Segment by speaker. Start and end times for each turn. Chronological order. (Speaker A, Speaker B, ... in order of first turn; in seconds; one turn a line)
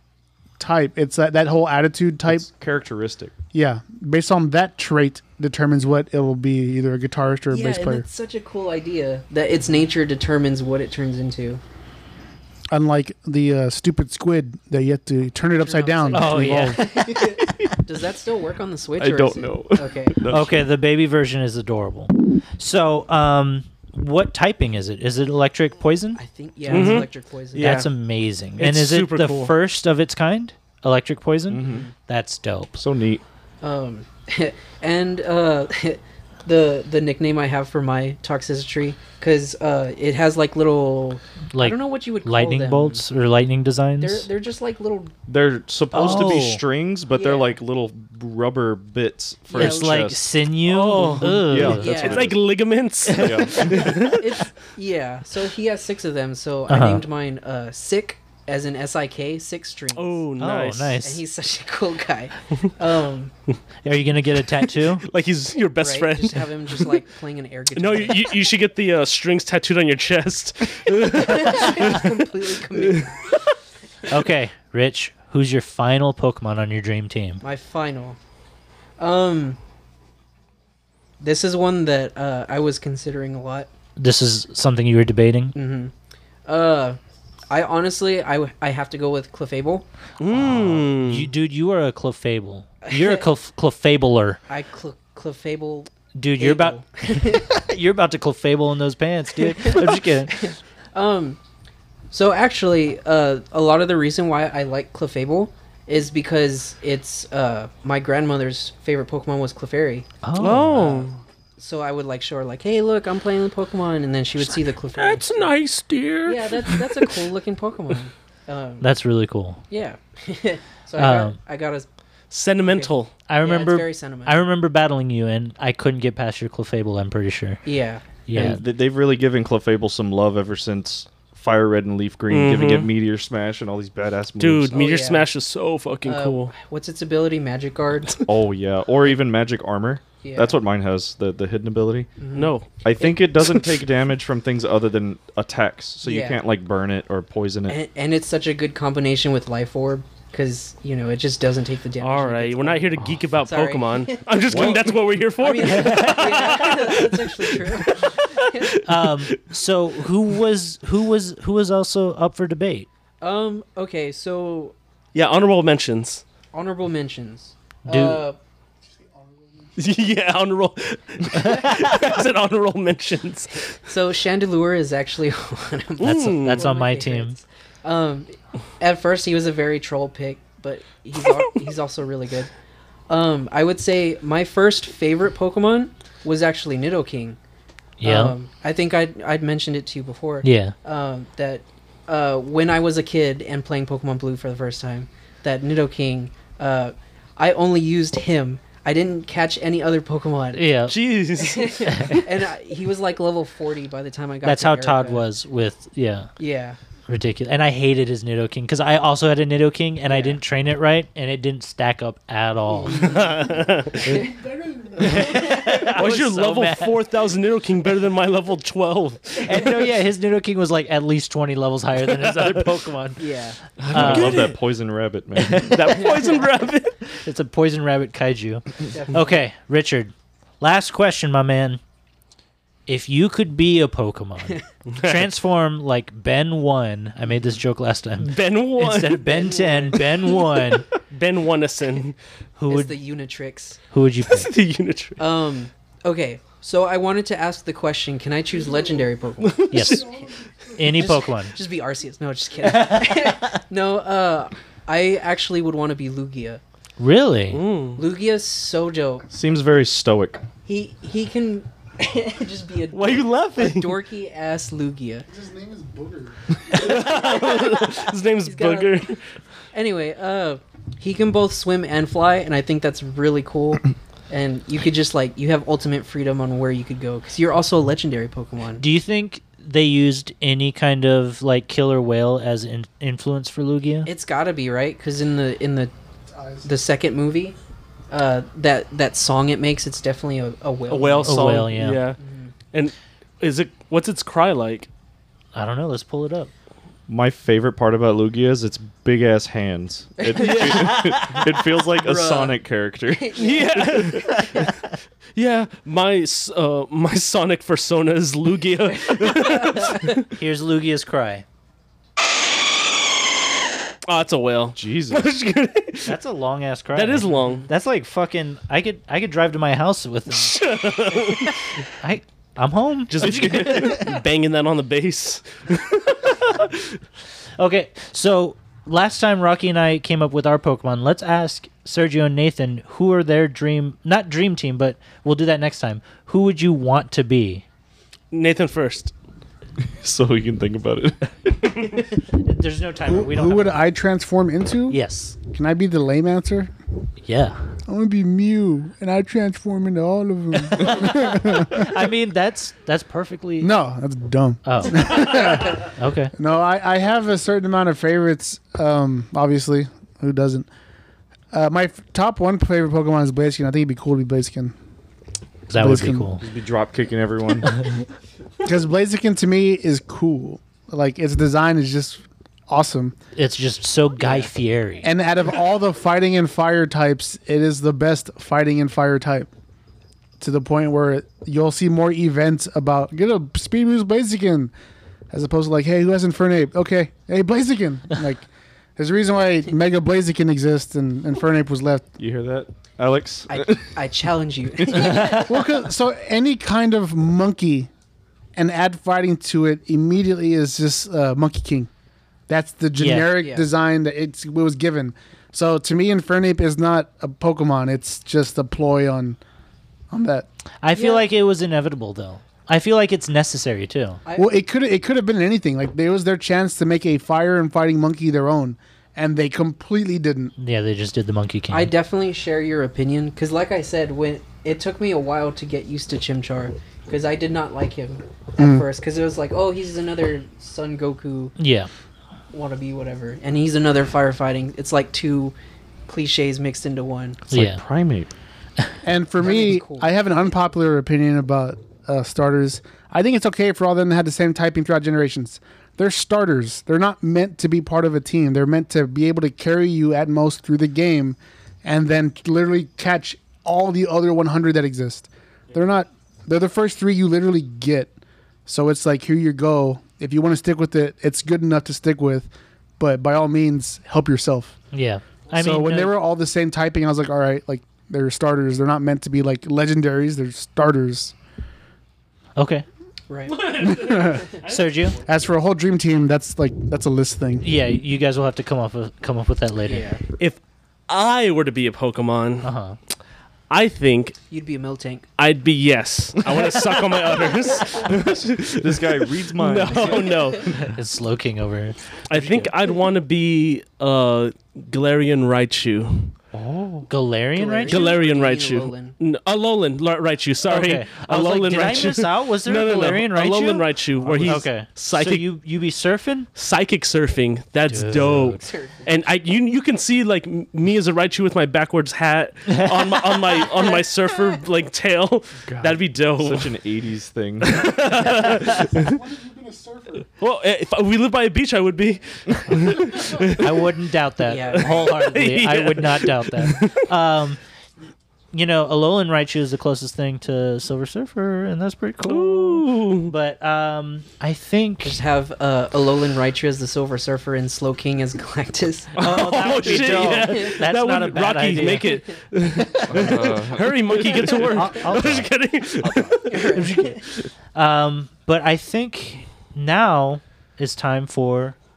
Speaker A: 0.6-2.5
Speaker B: 2.3-3.3
Speaker A: 3.5-8.0
Speaker C: 7.5-11.6
Speaker A: 12.7-16.9
Speaker C: 15.5-20.2
Speaker D: 16.1-17.3
Speaker B: 19.0-20.6
Speaker D: 20.3-27.0
Speaker C: 26.1-27.8
Speaker E: 26.7-27.9
Speaker D: 27.6-32.8
Speaker E: 28.6-29.5
Speaker B: 31.5-31.9
Speaker C: 31.6-31.9
Speaker B: 32.8-33.2
Speaker C: 33.6-43.0
Speaker D: 41.5-44.3
Speaker C: 44.0-45.1
Speaker B: 45.3-50.3
Speaker D: 45.9-46.6
Speaker C: 47.1-47.6
Speaker C: 49.5-50.0
Speaker D: 49.5-52.1
Speaker E: 50.6-54.4
Speaker B: 51.0-52.4
Speaker C: 51.7-52.4
Speaker D: 53.1-54.0
Speaker B: 53.1-54.0
Speaker C: 53.8-60.2
Speaker D: 56.7-57.0
Speaker E: 59.9-61.0
Speaker D: 60.4-61.2
Speaker C: 61.0-63.3
Speaker D: 63.8-65.0
Speaker E: 64.8-66.9
Speaker C: 65.8-68.3
Speaker E: 67.7-72.2
Speaker C: 71.0-73.2
Speaker E: 72.7-73.3
Speaker D: 74.1-77.4
Speaker C: 77.4-78.2
Speaker C: 79.0-79.6
Speaker C: 81.2-83.7
Speaker D: 84.0-85.5
Speaker C: 85.5-85.9
Speaker C: 86.4-87.0
Speaker C: 87.5-89.8
Speaker E: 90.2-91.3
Speaker D: 90.3-94.4
Speaker C: 92.8-93.2
Speaker C: 94.5-97.5
Speaker D: 96.1-100.5
Speaker C: 99.5-101.4
Speaker C: 102.1-110.1
Speaker D: 110.2-111.0
Speaker E: 110.4-111.2
Speaker C: 110.6-115.5
Speaker E: 114.9-117.2
Speaker C: 116.2-118.9
Speaker D: 118.8-119.6
Speaker C: 119.7-121.9
Speaker D: 121.0-121.4
Speaker E: 122.3-123.1
Speaker C: 122.6-124.4
Speaker D: 123.3-127.6
Speaker C: 127.6-128.2
Speaker D: 128.2-128.6
Speaker B: 128.3-134.8
Speaker E: 132.3-132.9
Speaker E: 134.4-136.5
Speaker C: 134.7-135.3
Speaker C: 136.0-138.2
Speaker B: 138.2-142.1
Speaker C: 140.2-140.6
Speaker C: 142.2-142.5
Speaker E: 142.3-143.8
Speaker B: 142.8-147.8
Speaker C: 146.0-146.4
Speaker C: 147.7-158.7
Speaker E: 152.0-159.4
Speaker B: 153.0-153.2
Speaker B: 154.5-154.8
Speaker D: 158.8-162.9
Speaker C: 163.2-164.7
Speaker E: 165.1-166.2
Speaker C: 166.5-168.4
Speaker D: 167.8-168.2
Speaker A: 169.2-169.7
Speaker E: 169.8-173.8
Speaker C: 173.8-182.5
Speaker E: 176.0-176.7
Speaker D: 176.0-177.4
Speaker C: 183.1-187.4
Speaker D: 188.0-188.3
Speaker C: 188.0-200.7
Speaker D: 190.4-190.7
Speaker D: 200.6-201.0
Speaker E: 200.9-202.0
Speaker C: 201.3-205.2
Speaker D: 201.8-202.2
Speaker D: 204.4-206.3
Speaker C: 206.4-206.8
Speaker D: 207.1-213.1
Speaker C: 210.1-210.4
Speaker C: 212.8-214.3
Speaker E: 212.9-214.2
Speaker A: 214.2-215.5
Speaker D: 214.9-217.0
Speaker E: 215.0-219.8
Speaker D: 219.4-223.2
Speaker E: 222.1-222.7
Speaker C: 223.2-223.6
Speaker E: 223.8-224.6
Speaker D: 223.9-224.5
Speaker B: 223.9-226.0
Speaker D: 225.4-226.1
Speaker E: 225.7-226.9
Speaker D: 227.2-231.8
Speaker C: 228.9-229.3
Speaker D: 232.9-240.9
Speaker E: 234.9-235.3
Speaker E: 238.2-239.2
Speaker C: 239.2-240.2
Speaker E: 240.2-242.2
Speaker D: 242.6-242.9
Speaker C: 242.7-243.8
Speaker D: 243.9-244.5
Speaker E: 244.3-245.2
Speaker C: 245.2-250.0
Speaker E: 249.4-250.1
Speaker D: 249.7-250.1
Speaker A: 249.9-251.0
Speaker D: 250.7-251.6
Speaker C: 250.9-256.6
Speaker D: 252.6-253.6
Speaker D: 257.0-257.6
Speaker E: 257.5-258.0
Speaker C: 258.0-259.2
Speaker B: 259.3-260.4
Speaker C: 260.6-265.3
Speaker E: 262.9-264.0
Speaker A: 265.3-267.1
Speaker E: 266.7-269.2
Speaker C: 267.1-269.1
Speaker C: 269.7-278.8
Speaker D: 278.8-284.1
Speaker C: 284.0-285.9
Speaker A: 286.3-286.7
Speaker C: 286.6-287.6
Speaker C: 288.1-291.6
Speaker E: 290.9-292.2
Speaker D: 291.2-292.0
Speaker C: 292.2-292.5
Speaker E: 292.7-294.9
Speaker D: 295.5-296.5
Speaker B: 297.1-303.4
Speaker C: 300.2-301.3
Speaker E: 300.4-301.4
Speaker C: 301.9-304.7
Speaker E: 303.4-304.7
Speaker D: 304.4-304.7
Speaker E: 305.3-310.2
Speaker C: 309.1-310.2
Speaker D: 310.3-311.4
Speaker E: 314.1-316.2
Speaker B: 314.8-315.3
Speaker D: 316.1-320.6
Speaker E: 316.9-317.7
Speaker C: 317.3-317.6
Speaker E: 320.3-321.6
Speaker D: 322.0-324.2
Speaker E: 323.1-326.8
Speaker D: 327.6-337.6
Speaker E: 338.3-339.1
Speaker B: 340.0-342.0
Speaker D: 342.2-343.8
Speaker A: 343.1-346.7
Speaker D: 344.9-345.4
Speaker D: 347.2-347.7
Speaker A: 347.9-351.9
Speaker D: 350.7-353.7
Speaker A: 353.6-360.7
Speaker D: 354.6-356.3
Speaker A: 361.5-364.7
Speaker D: 365.7-366.4
Speaker A: 365.7-366.3
Speaker B: 366.4-367.8
Speaker A: 368.6-373.1
Speaker D: 373.3-375.1
Speaker A: 375.0-379.5
Speaker A: 380.4-384.7
Speaker A: 385.3-392.1
Speaker B: 392.2-393.9
Speaker C: 393.5-395.6
Speaker B: 394.8-395.4
Speaker A: 395.4-397.9
Speaker A: 398.6-401.9
Speaker A: 402.5-409.4
Speaker D: 402.9-403.3
Speaker C: 403.3-403.7
Speaker A: 410.1-410.5
Speaker D: 410.8-414.2
Speaker C: 410.9-411.2
Speaker C: 414.2-414.5
Speaker A: 414.4-420.5
Speaker D: 420.6-421.9
Speaker C: 421.7-431.5
Speaker A: 428.6-428.8
Speaker D: 431.6-431.9
Speaker C: 432.5-435.5
Speaker C: 436.1-437.4
Speaker B: 437.5-438.3
Speaker D: 437.5-437.8
Speaker A: 439.0-458.1
Speaker C: 439.4-440.1
Speaker A: 458.6-464.8
Speaker D: 464.9-466.2
Speaker A: 465.5-471.3
Speaker D: 472.6-472.8
Speaker C: 473.3-474.1
Speaker E: 473.5-475.3
Speaker A: 473.8-474.5
Speaker D: 474.6-475.2
Speaker A: 475.2-477.6
Speaker D: 477.6-480.1
Speaker C: 479.9-480.2
Speaker E: 480.4-482.7
Speaker D: 482.6-483.0
Speaker E: 483.7-484.4
Speaker C: 484.5-485.2
Speaker E: 485.4-490.7
Speaker B: 488.0-490.8
Speaker C: 489.9-490.7
Speaker D: 490.9-492.7
Speaker E: 492.3-496.3
Speaker B: 496.5-497.1
Speaker D: 497.1-498.0
Speaker C: 497.5-499.1
Speaker E: 497.9-505.4
Speaker D: 500.6-503.9
Speaker D: 504.4-506.5
Speaker E: 506.6-516.7
Speaker D: 507.9-508.6
Speaker C: 508.5-509.1
Speaker D: 512.7-513.2
Speaker B: 515.7-518.4
Speaker E: 517.6-519.2
Speaker A: 518.6-520.3
Speaker E: 520.4-523.8
Speaker D: 523.4-527.6
Speaker C: 524.4-525.2
Speaker E: 524.9-527.0
Speaker D: 528.5-535.2
Speaker E: 532.2-533.3
Speaker C: 535.0-540.7
Speaker E: 539.1-547.5
Speaker D: 539.2-542.2
Speaker D: 542.8-543.5
Speaker B: 543.0-544.8
Speaker D: 544.5-545.5
Speaker B: 546.0-546.4
Speaker C: 546.5-547.2
Speaker D: 546.6-547.2
Speaker D: 547.7-551.8